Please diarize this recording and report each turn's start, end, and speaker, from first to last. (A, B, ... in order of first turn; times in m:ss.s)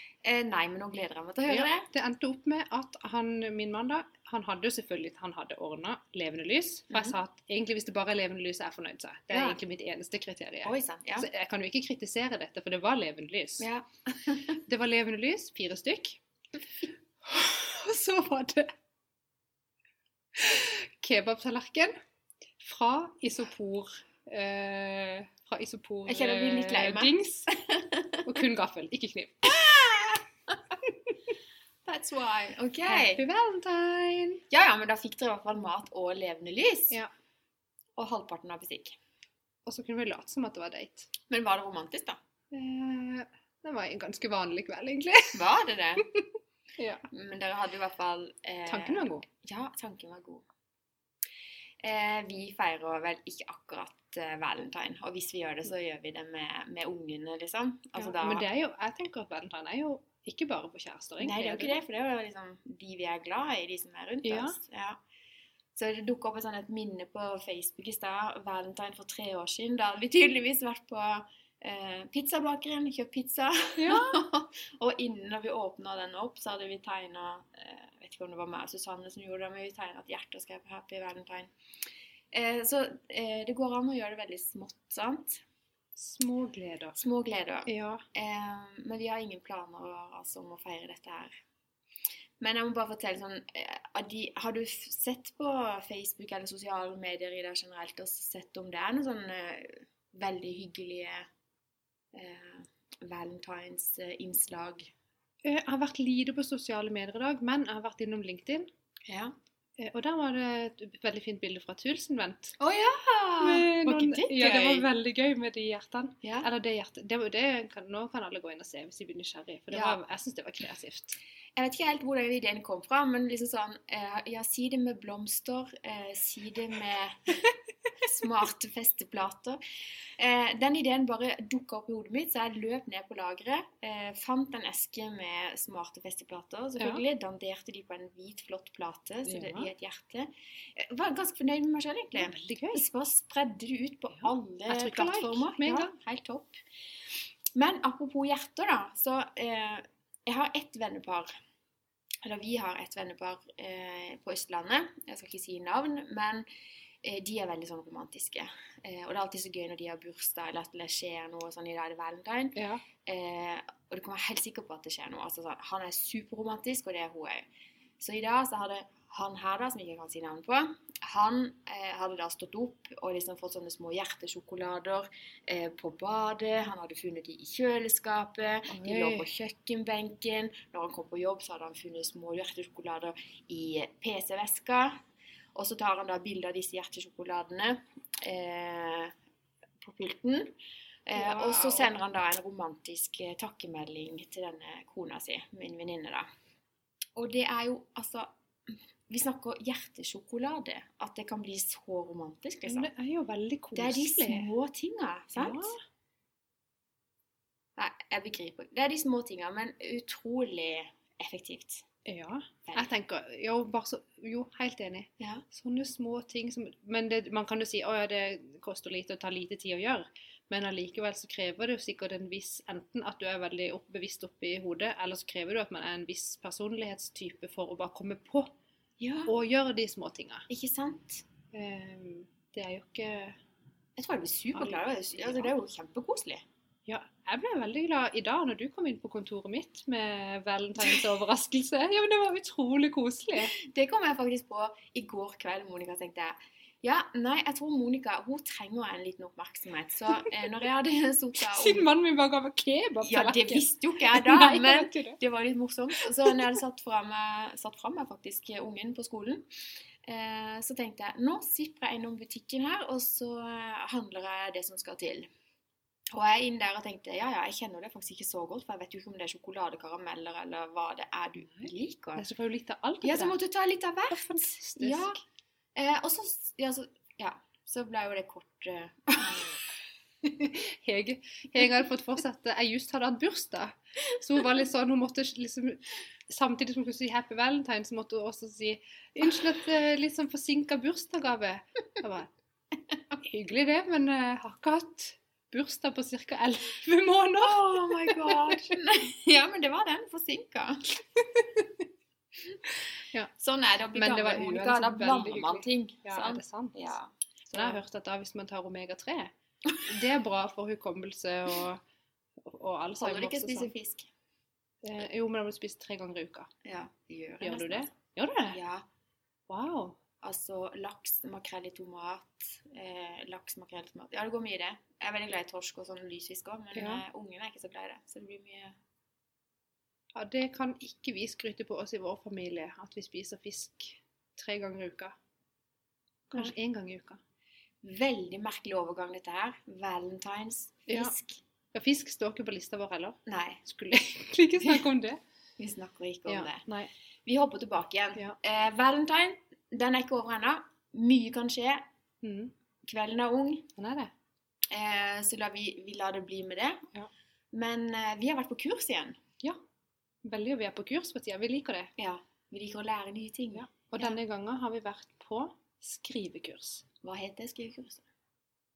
0:00.2-0:01.9 A
0:01.5-0:16.2 B
0:06.9-0:07.2 A
0:09.3-0:09.6 A
0:10.6-0:11.3 A
0:13.6-0:14.6 A
0:17.2-0:18.7 B
0:20.3-0:22.0 B
0:22.6-0:27.5 B
0:26.1-0:28.3 A
0:28.2-0:29.6 B
0:29.4-0:30.8 A
0:31.9-0:33.2 A
0:32.8-0:34.4 B
0:34.5-0:37.0 A
0:38.0-0:39.0 A
0:39.7-0:41.1 B
0:41.3-0:42.2 A
0:42.5-0:45.4 B
0:45.3-0:46.1 A
0:46.8-0:47.0 B
0:47.1-0:50.4 A
0:48.7-0:49.2 B
0:51.8-0:58.5 A
0:58.0-1:01.8 B
1:01.2-1:05.0 A
1:04.2-1:04.6 B
1:05.8-1:21.5 A
1:13.8-1:14.2 B
1:22.3-1:25.4 A
1:26.0-1:27.0 B
1:27.0-1:31.3 A
1:27.7-1:28.0 B
1:32.4-1:41.3 A
1:42.1-1:44.9 A
1:45.4-1:48.7 B
1:49.1-1:49.4 A
1:49.8-1:52.6 B
1:52.6-1:54.9 A
1:53.4-2:01.2 B
1:56.2-1:56.5 A
1:59.7-2:00.0 A
2:01.6-2:07.4 A
2:08.0-2:26.6 A
2:16.8-2:17.0 B
2:19.2-2:19.7 B
2:22.2-2:22.8 B
2:24.2-2:25.9 B
2:27.6-2:31.4 A
2:32.2-2:36.5 A
2:37.0-2:47.5 A
2:42.6-2:42.8 B
2:48.0-3:05.0 A
2:58.7-2:59.3 B
3:05.6-3:09.1 A
3:09.8-3:10.6 A
3:11.1-3:16.3 A
3:11.2-3:11.9 B
3:17.2-3:22.9 A
3:22.6-3:24.5 B
3:23.8-3:25.8 A
3:25.4-3:25.8 B
3:27.8-3:31.8 A
3:32.0-3:48.5 B
3:32.6-3:32.9 A
3:35.2-3:35.4 A
3:49.0-3:49.3 A
3:49.3-3:50.5 B
3:50.5-3:51.2 A
3:51.5-3:53.4 B
3:54.0-3:56.4 A
3:54.5-3:55.6 B
3:56.9-4:03.5 B
4:03.4-4:11.9 A
4:11.4-4:15.2 B
4:13.0-4:19.5 A
4:16.0-4:16.4 B
4:20.0-4:25.3 A
4:26.1-4:32.3 A
4:31.5-4:33.4 B
4:33.0-4:35.2 A
4:34.1-4:35.1 B
4:35.8-4:39.6 A
4:40.2-4:52.3 B
4:53.2-4:58.7 B
4:57.4-5:01.0 A
5:01.2-5:01.7 B
5:02.7-5:03.3 B
5:03.4-5:07.8 A
5:03.9-5:06.9 B
5:07.5-5:11.8 B
5:12.4-5:13.7 B
5:13.0-5:14.1 A
5:14.8-5:16.5 B
5:16.6-5:17.9 A
5:17.4-5:18.6 B
5:18.5-5:18.8 A
5:19.5-5:20.0 B
5:20.2-5:28.8 A
5:26.8-5:27.0 B
5:30.2-5:35.2 B
5:36.3-5:37.2 B
5:37.8-5:41.4 A
5:41.7-5:45.2 B
5:43.3-5:43.6 A
5:45.6-5:46.7 A
5:46.3-5:46.9 B
5:47.2-5:51.8 A
5:52.2-5:52.5 B
5:52.8-5:53.7 A
5:53.8-5:54.1 B
5:54.7-5:56.9 A
5:57.5-5:59.2 A
6:00.2-6:01.9 B
6:02.0-6:04.2 A
6:03.6-6:06.8 B
6:07.0-6:08.0 A